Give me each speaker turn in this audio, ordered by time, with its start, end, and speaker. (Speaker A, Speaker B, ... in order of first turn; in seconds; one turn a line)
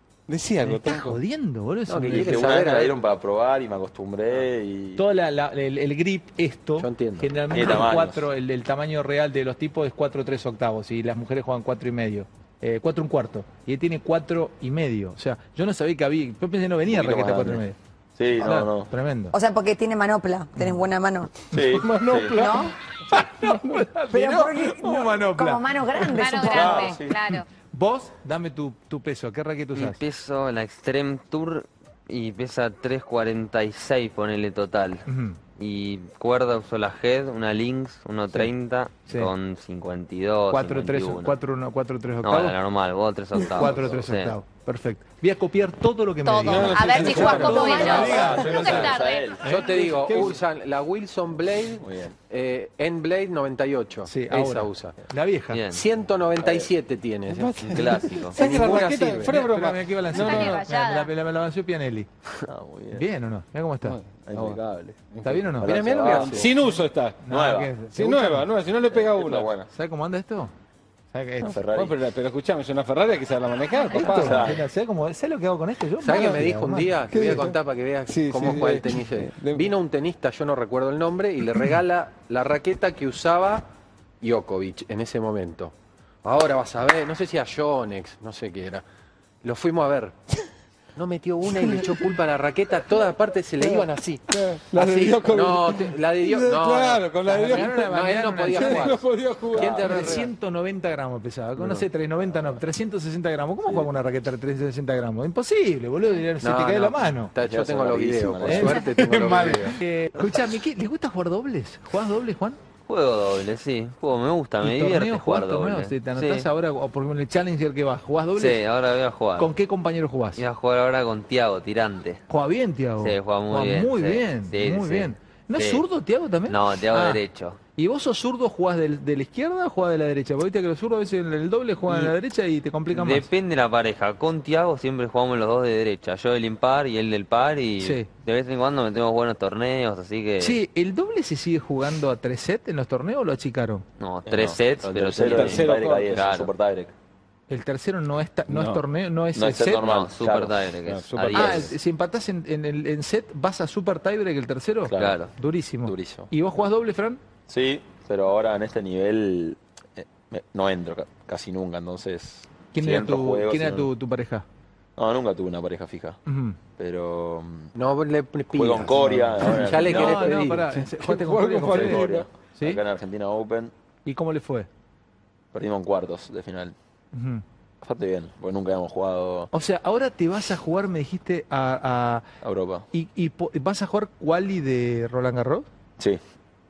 Speaker A: 0.3-1.2
Speaker B: 0.6-2.5
Speaker C: 1.9-3.0
Speaker D: 2.1-5.0
Speaker B: 5.0-17.8
Speaker C: 6.8-7.4
Speaker D: 7.5-8.3
Speaker D: 16.9-17.6
Speaker D: 18.1-18.9
Speaker B: 18.4-19.4
Speaker E: 19.3-21.4
Speaker B: 20.6-20.8
Speaker D: 21.5-22.6
Speaker A: 21.6-23.9
Speaker E: 22.4-22.7
Speaker B: 23.1-26.2
Speaker E: 24.1-27.0
Speaker F: 26.1-27.5
Speaker D: 26.4-27.2
Speaker B: 27.7-30.0
Speaker G: 29.7-41.4
Speaker B: 35.1-35.4
Speaker B: 40.5-42.5
Speaker G: 42.2-44.4
Speaker B: 43.4-48.9
Speaker F: 46.2-49.6
Speaker A: 46.4-48.0
Speaker E: 47.3-48.4
Speaker D: 47.6-49.5
Speaker C: 49.4-55.0
Speaker B: 49.4-50.3
Speaker A: 49.8-50.4
Speaker D: 51.8-52.1
Speaker B: 54.0-55.6
Speaker G: 55.5-55.9
Speaker C: 55.7-59.4
Speaker D: 56.4-56.7
Speaker A: 57.3-60.5
Speaker G: 57.6-58.4
Speaker B: 58.4-62.1
Speaker F: 60.1-61.1
Speaker D: 62.4-63.0
Speaker B: 62.9-64.0
Speaker A: 63.9-64.6
Speaker D: 64.3-66.5
Speaker A: 65.1-67.2
Speaker B: 65.2-65.7
Speaker C: 65.6-66.6
Speaker B: 67.2-68.5
Speaker D: 67.3-67.7
Speaker A: 67.9-69.5
Speaker D: 68.9-69.7
Speaker B: 69.7-70.5
Speaker B: 71.1-71.6
Speaker D: 71.4-72.0
Speaker A: 71.7-74.5
Speaker B: 73.9-77.2
Speaker D: 74.0-74.6
Speaker C: 76.0-83.6
Speaker A: 77.1-77.5
Speaker A: 78.1-79.7
Speaker C: 84.2-88.8
Speaker C: 89.4-90.2
Speaker C: 91.0-94.2
Speaker A: 91.6-92.0
Speaker A: 93.6-97.9
Speaker B: 94.7-95.2
Speaker C: 94.8-100.3
Speaker B: 97.3-99.0
Speaker A: 98.5-100.1
Speaker D: 99.5-100.0
Speaker B: 99.6-107.3
Speaker D: 103.6-103.9
Speaker C: 106.4-109.8
Speaker D: 107.4-108.8
Speaker B: 108.4-112.6
Speaker G: 112.9-116.5
Speaker B: 114.6-118.6
Speaker G: 118.4-119.5
Speaker B: 119.4-120.4
Speaker G: 120.4-122.2
Speaker B: 122.3-127.2
Speaker G: 123.0-125.8
Speaker G: 126.5-127.6
Speaker B: 127.8-133.3
Speaker G: 131.9-132.1
Speaker G: 132.9-140.6
Speaker B: 137.8-138.1
Speaker B: 140.4-143.8
Speaker G: 144.0-146.5
Speaker D: 144.2-146.9
Speaker A: 145.1-146.3
Speaker B: 147.5-149.9
Speaker A: 148.5-148.8
Speaker D: 149.3-150.6
Speaker G: 149.8-151.7
Speaker A: 150.9-151.6
Speaker B: 151.3-157.2
Speaker D: 154.9-155.2
Speaker G: 154.9-155.3
Speaker D: 155.9-156.3
Speaker D: 157.5-163.9
Speaker B: 162.7-164.4
Speaker D: 165.0-166.2
Speaker B: 166.2-166.6
Speaker D: 166.8-167.7
Speaker C: 167.7-170.8
Speaker D: 168.5-170.5
Speaker B: 169.8-172.8
Speaker A: 170.7-172.3
Speaker D: 171.6-173.7
Speaker B: 174.0-174.7
Speaker D: 175.5-176.7
Speaker B: 177.1-177.4
Speaker D: 177.8-179.5
Speaker B: 179.5-182.2
Speaker D: 182.4-182.8
Speaker B: 182.9-185.7